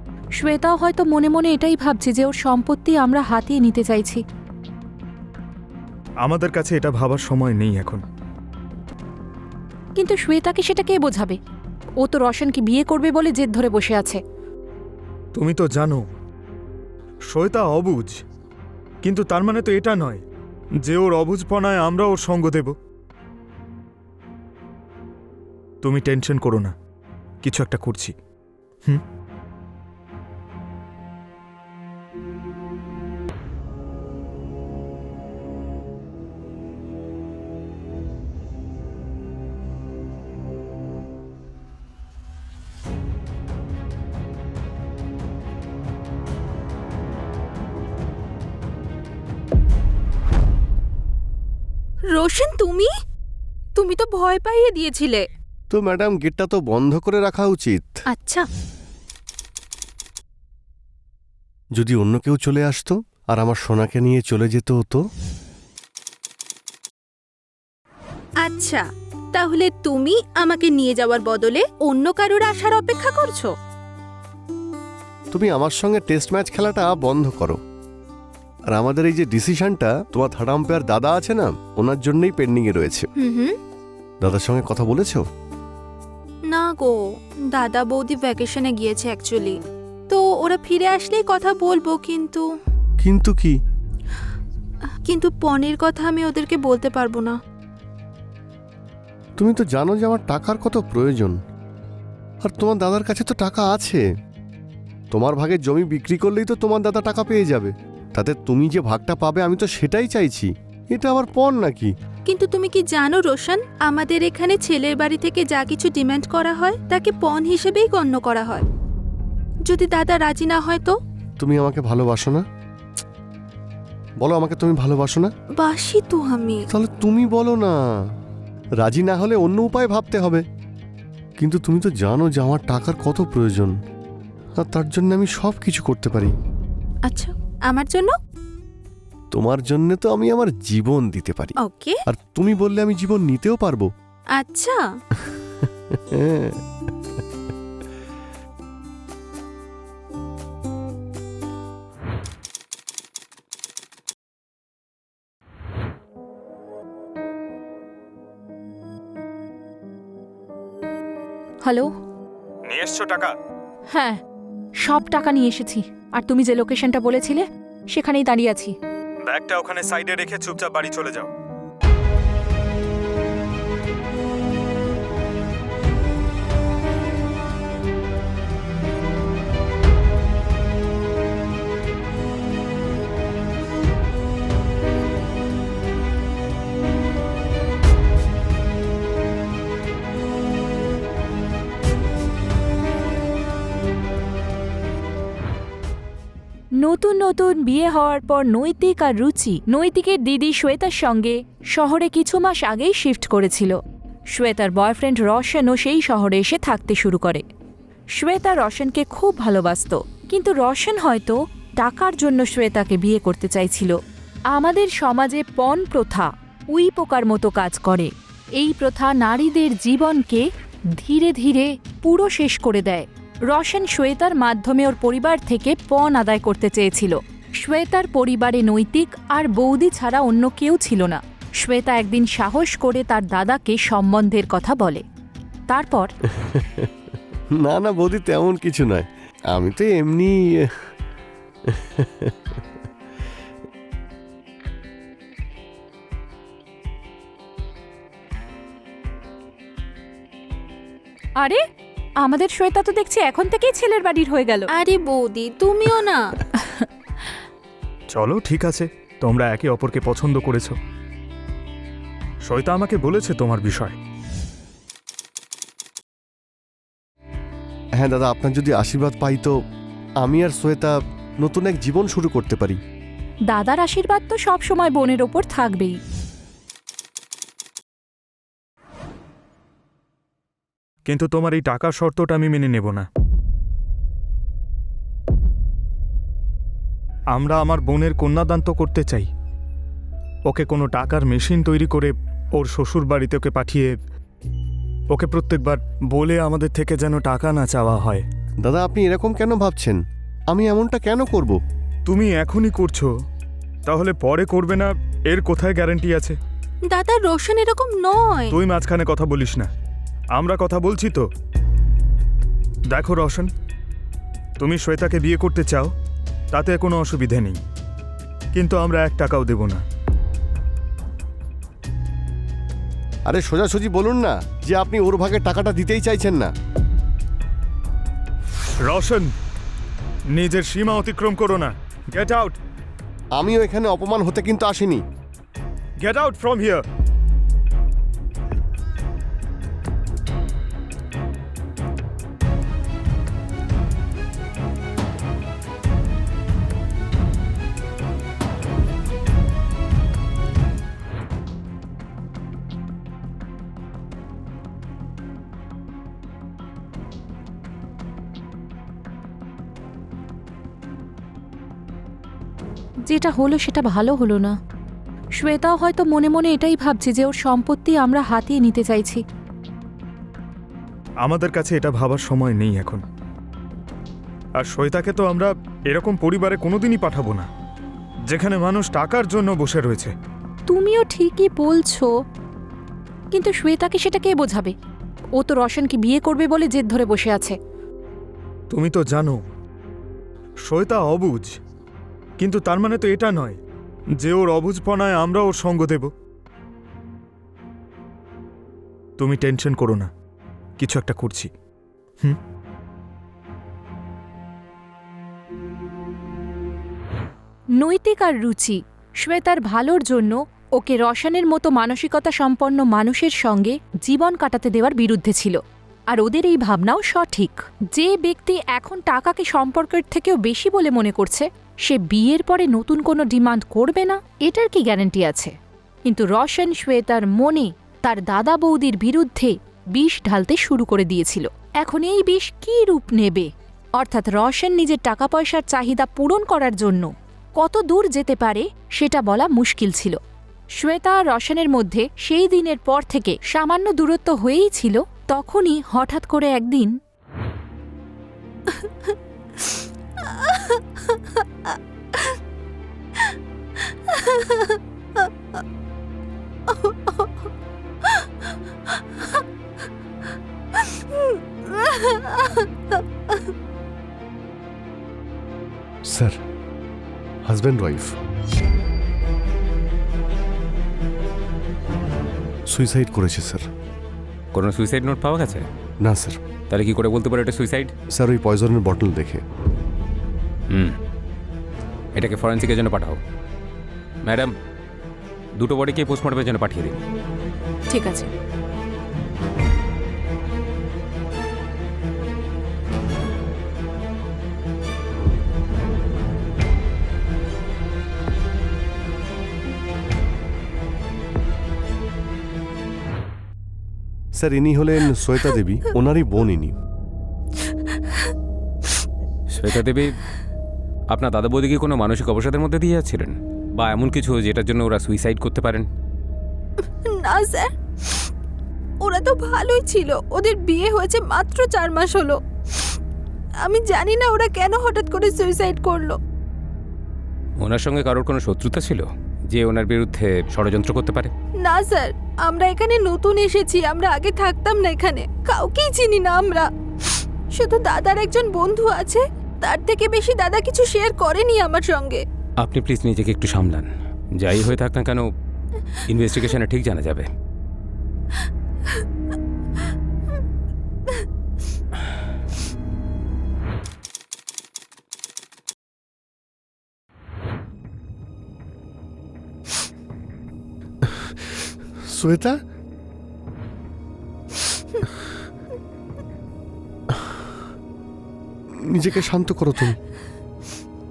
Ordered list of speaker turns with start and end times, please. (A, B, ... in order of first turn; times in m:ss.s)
0:00.4-0:04.2 A
0:06.2-0:08.0 B
0:10.0-0:11.4 A
0:12.0-0:14.2 A
0:15.3-0:16.1 B
0:17.3-0:18.2 B
0:19.0-0:20.2 B
0:20.8-0:22.8 B
0:25.8-0:26.7 B
0:27.4-0:28.1 B
0:52.1-0:52.9 C
0:53.7-0:55.2 C
0:55.7-0:57.9 D
0:58.1-0:58.5 C
1:01.8-1:05.0 D
1:08.4-1:13.5 C
1:15.3-1:17.6 D
1:18.7-1:23.1 D
1:23.2-1:23.6 C
1:24.2-1:25.2 D
1:26.5-1:32.4 C
1:33.0-1:33.5 D
1:35.0-1:37.4 C
1:39.4-1:41.4 D
1:42.4-1:44.0 D
1:45.1-1:51.9 D
1:52.2-1:58.7 C
1:59.6-2:00.9 C
2:01.4-2:02.4 D
2:04.2-2:05.3 D
2:05.6-2:06.6 C
2:06.7-2:07.8 D
2:08.8-2:10.4 D
2:11.4-2:13.7 D
2:14.6-2:16.3 D
2:17.0-2:18.1 C
2:19.3-2:21.6 D
2:21.6-2:22.0 C
2:22.1-2:23.9 D
2:24.3-2:24.9 C
2:25.1-2:26.6 D
2:42.6-2:43.3 B
2:43.9-2:44.2 A
2:44.8-2:48.7 A
2:49.2-2:51.3 B
3:16.8-3:23.8 A
3:24.3-3:27.4 A
3:28.2-3:33.9 A
3:34.5-3:40.4 A
3:41.0-3:55.0 A
3:55.7-3:56.1 A
3:56.3-3:56.9 D
3:57.5-4:00.7 D
4:01.7-4:02.3 D
4:12.2-4:14.7 A
4:14.7-4:16.2 C
4:18.1-4:20.8 B
4:22.4-4:24.0 B
4:28.0-4:29.5 D
4:30.2-4:32.8 D
4:33.5-4:36.0 A
4:41.0-4:43.1 B
4:47.3-4:49.3 B
4:50.5-4:54.0 B
4:55.1-4:58.2 B
4:58.6-5:01.6 D
5:02.0-5:03.1 B
5:03.8-5:06.4 B
5:06.9-5:08.6 C
5:08.5-5:09.7 B
5:10.3-5:11.3 B
5:12.9-5:13.5 B
5:14.6-5:15.9 B
5:16.5-5:17.6 B
5:18.5-5:19.8 B
5:23.2-5:26.5 D
5:28.8-5:29.3 B
5:30.3-5:32.6 B
5:33.4-5:35.0 D
5:36.0-5:36.8 B
6:03.1-6:04.5 A
6:05.4-6:09.2 A
6:11.2-6:13.0 B
6:14.6-6:17.5 B
6:18.3-6:20.1 B
6:20.7-6:22.1 A
6:23.3-6:24.7 A
6:25.4-6:27.6 A
6:28.7-6:29.4 B
6:30.6-6:31.6 B
6:32.4-6:33.6 B
6:34.2-6:36.1 B
6:39.2-6:40.1 B
6:40.8-6:41.5 B
6:47.8-6:55.6 A
6:56.1-7:05.5 A
7:06.0-7:20.2 A
7:20.8-7:26.9 A
7:28.7-7:32.4 C
7:33.2-7:35.6 C
7:36.7-7:37.5 C
7:38.0-7:39.4 C
7:40.7-7:43.5 C
7:46.0-7:46.4 D
7:47.4-7:48.1 D
7:52.7-7:53.6 D
7:54.5-7:55.6 E
7:56.0-7:56.4 D
7:56.7-7:57.9 E
7:58.1-7:59.4 D
8:02.1-8:03.2 E
8:04.2-8:04.5 E
8:05.6-8:07.0 E
8:07.9-8:08.2 C
8:24.4-8:26.7 D
8:27.6-8:28.3 C
8:29.5-8:30.2 E
8:31.1-8:35.9 E
8:36.8-8:38.3 C
8:39.0-8:43.0 C
8:43.6-8:46.2 C
8:47.6-8:51.3 E
8:51.6-9:02.2 C
9:02.6-9:05.2 E
9:06.1-9:07.3 E
9:21.0-9:21.4 D
9:22.0-9:22.6 D
9:27.1-9:27.4 D
9:28.8-9:30.0 D